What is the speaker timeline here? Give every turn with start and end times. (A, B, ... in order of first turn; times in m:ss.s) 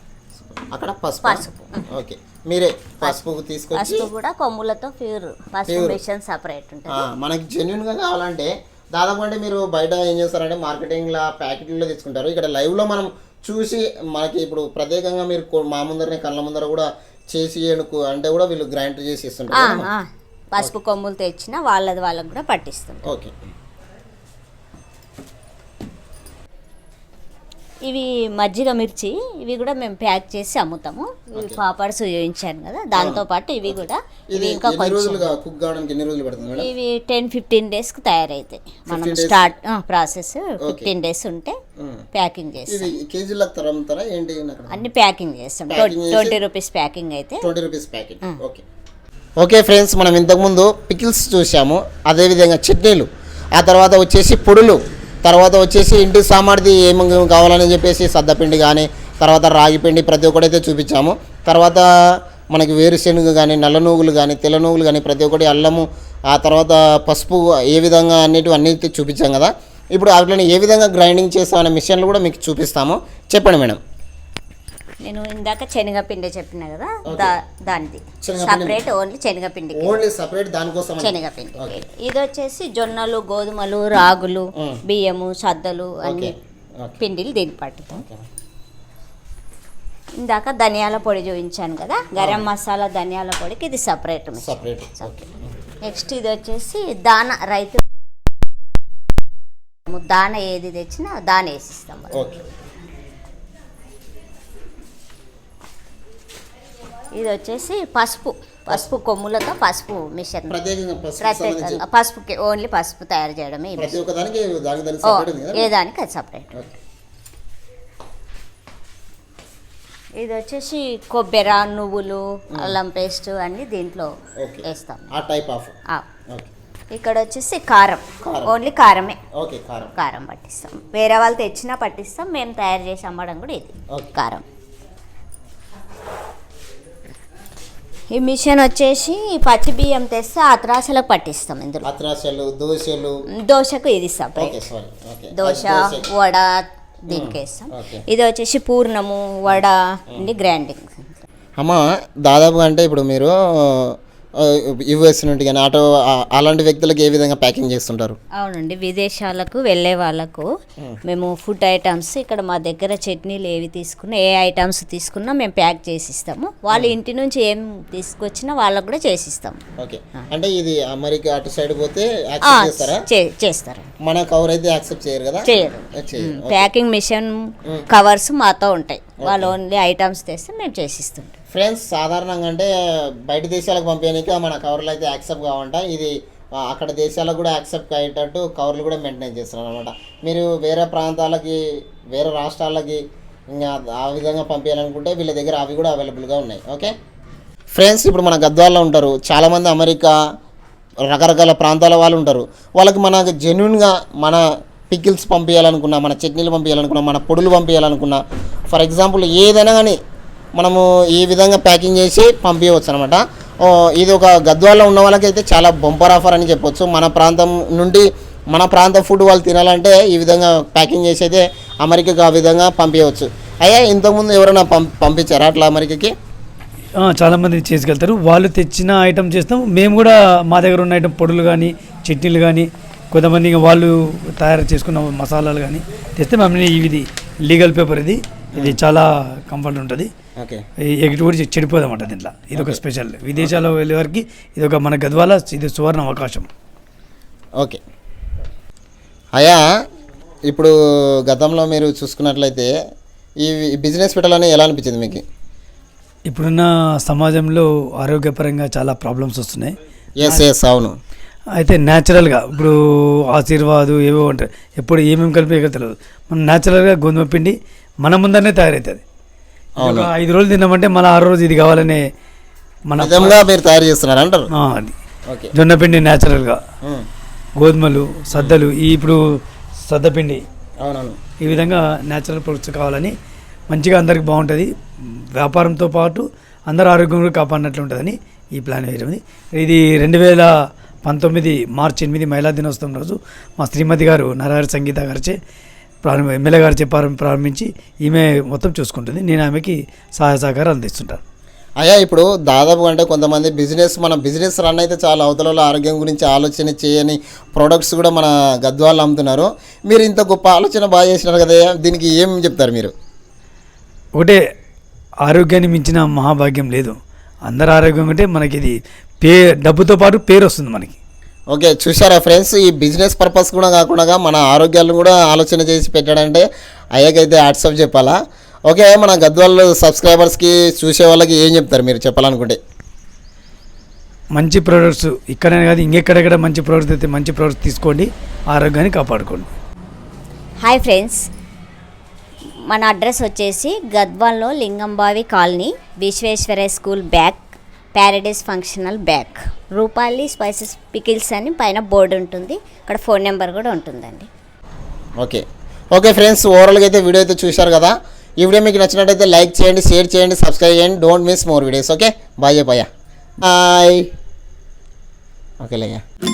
0:00.3-0:04.1 A
0:01.2-0:01.8 B
0:03.8-0:07.1 B
0:05.7-0:06.0 A
0:06.9-0:19.9 A
0:19.5-0:23.1 B
0:23.0-0:23.4 A
0:27.9-0:35.3 B
0:31.4-0:31.6 A
0:32.9-0:36.7 A
0:36.4-0:41.6 B
0:38.9-0:39.5 A
0:40.6-0:40.9 A
0:41.8-0:42.0 A
0:42.1-0:42.9 B
0:42.7-0:44.9 A
0:44.7-0:47.5 B
0:45.7-0:46.4 A
0:47.4-0:48.6 A
0:49.4-1:01.9 A
1:02.5-1:13.8 A
1:15.0-1:20.0 B
1:17.0-1:17.3 A
1:18.2-1:18.8 A
1:19.7-1:21.8 A
1:21.0-1:26.3 B
1:26.0-1:27.0 A
1:27.0-1:28.0 B
1:27.9-1:28.2 A
1:30.2-1:35.1 B
1:32.2-1:32.4 A
1:34.4-1:35.5 A
1:35.8-1:37.8 B
1:39.9-1:42.3 B
1:42.1-1:42.4 A
1:47.1-1:50.6 B
1:50.5-1:51.8 A
1:51.2-1:54.0 B
1:53.8-1:55.7 A
1:55.1-1:56.5 B
2:00.2-2:04.1 B
2:04.4-2:05.7 A
2:04.6-2:05.1 B
2:06.9-2:09.2 B
2:08.2-2:08.6 A
2:09.4-2:09.9 A
2:10.0-2:14.4 B
2:18.1-2:21.9 B
2:21.8-2:23.2 A
2:23.4-2:24.6 B
2:24.4-2:26.1 A
2:25.4-2:31.2 B
2:27.1-2:28.0 A
2:29.5-2:30.2 A
2:31.6-2:38.2 A
2:38.4-2:40.5 B
2:41.1-2:49.6 B
2:49.8-2:53.0 A
2:52.4-2:53.9 B
2:54.0-2:56.7 A
2:55.4-3:01.4 B
2:59.2-2:59.6 A
3:01.5-3:16.9 A
3:17.7-3:20.2 A
3:21.0-3:30.0 A
3:30.6-3:46.1 A
3:47.0-4:00.1 C
4:00.4-4:00.6 A
4:00.9-4:06.5 C
4:09.4-4:09.6 A
4:10.5-4:12.7 A
4:13.4-4:15.2 A
4:16.3-4:20.4 C
4:20.2-4:21.0 A
4:21.6-4:22.8 C
4:23.3-4:29.0 C
4:29.8-4:30.1 A
4:29.8-4:32.0 C
4:32.9-4:33.4 C
4:33.0-4:34.5 A
4:34.5-4:34.9 C
4:35.6-4:36.6 C
4:37.6-4:39.2 C
4:38.3-4:38.6 A
4:39.9-4:40.4 C
4:40.8-4:41.2 A
4:41.4-4:43.1 C
4:43.7-4:50.5 C
4:51.0-4:55.4 C
4:56.0-5:01.2 C
5:01.8-5:12.9 A
5:15.2-5:21.0 C
5:21.5-5:28.2 A
5:28.7-5:32.6 A
5:34.4-5:39.5 C
5:40.6-5:41.2 B
5:42.7-5:54.3 B
5:55.2-6:02.9 A
6:03.4-6:04.1 A
6:05.6-6:06.0 A